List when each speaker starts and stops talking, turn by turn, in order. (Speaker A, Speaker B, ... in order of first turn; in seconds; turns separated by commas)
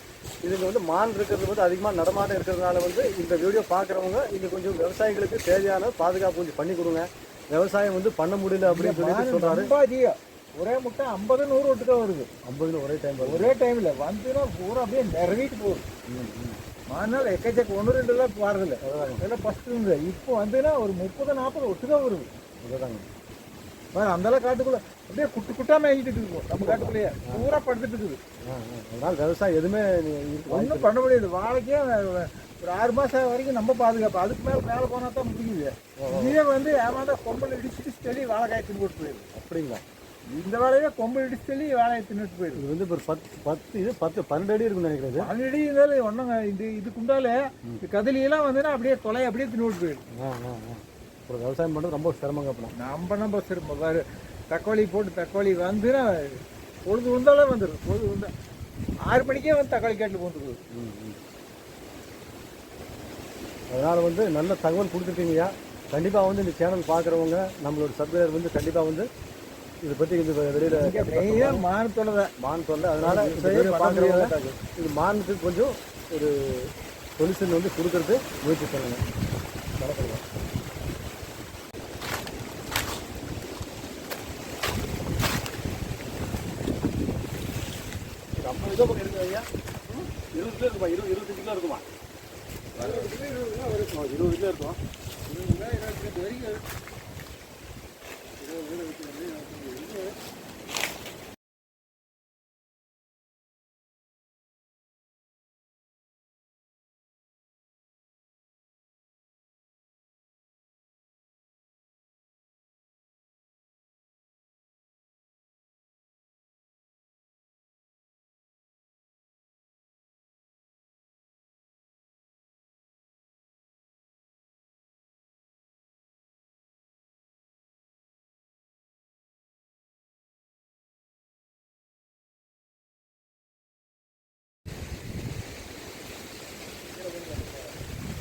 Speaker A: 0.4-9.7, Speaker B: 8.6-12.3, Speaker A: 12.4-13.5, Speaker B: 13.2-15.8, Speaker A: 16.1-16.6, Speaker B: 16.9-22.3, Speaker A: 18.8-19.2, Speaker A: 22.6-23.1, Speaker B: 23.9-28.2, Speaker A: 26.6-27.4, Speaker A: 28.5-30.9, Speaker B: 30.5-39.3, Speaker A: 36.0-36.4, Speaker A: 39.3-39.8, Speaker B: 40.3-42.6, Speaker A: 42.6-45.3, Speaker B: 45.2-50.0, Speaker A: 50.1-52.7, Speaker B: 52.8-56.3, Speaker B: 56.9-58.3, Speaker B: 59.1-60.6, Speaker A: 60.7-61.2, Speaker A: 63.7-69.1, Speaker A: 69.8-71.6, Speaker B: 70.6-72.3, Speaker A: 72.4-76.7, Speaker B: 73.0-74.4, Speaker A: 77.2-79.0, Speaker A: 79.8-80.2, Speaker A: 88.4-91.8, Speaker A: 92.8-96.6, Speaker B: 92.8-93.1, Speaker A: 98.4-100.2, Speaker A: 137.1-137.6